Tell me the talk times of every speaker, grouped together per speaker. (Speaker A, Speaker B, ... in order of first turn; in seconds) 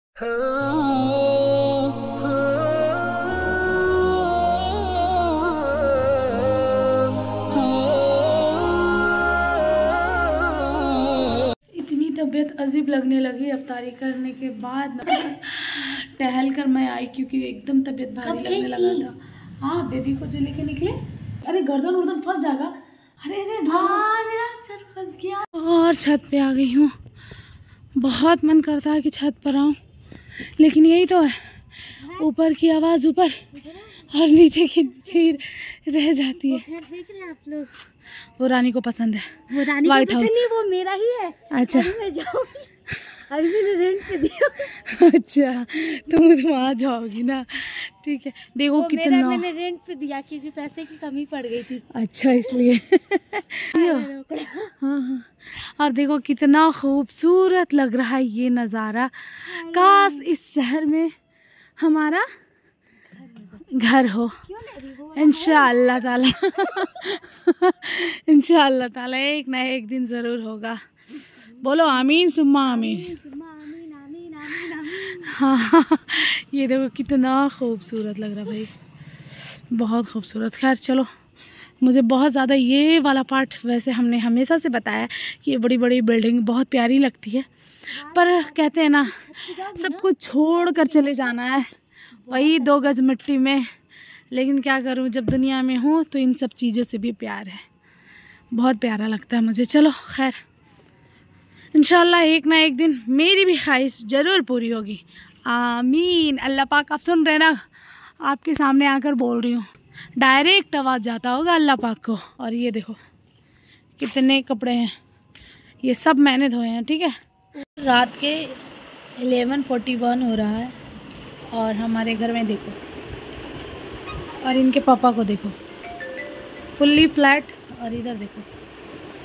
Speaker A: 11.7-26.9, 28.0-29.8, 30.6-31.5, 32.1-33.4, 34.1-36.6, 38.4-40.4, 41.5-42.0, 44.7-49.5, 51.9-54.1, 54.8-61.1, 61.8-62.3, 63.7-64.4, 65.1-70.8, 71.5-73.1, 74.8-78.7, 79.7-81.1, 81.8-87.5, 88.0-91.7, 92.3-93.7, 94.3-97.6, 98.5-100.4, 101.7-107.6, 108.2-113.0, 114.0-114.9, 115.8-118.6, 119.2-120.8, 121.5-122.8, 124.4-125.5, 126.8-128.5
Speaker B: 18.2-19.0, 23.7-24.2, 32.0-32.3, 33.5-34.0, 35.0-35.2, 36.5-37.7, 39.5-42.7, 43.3-44.7, 48.8-51.8, 53.7-54.7, 59.5-60.3, 64.4-67.1, 72.6-75.4, 87.9-91.4, 92.2-92.9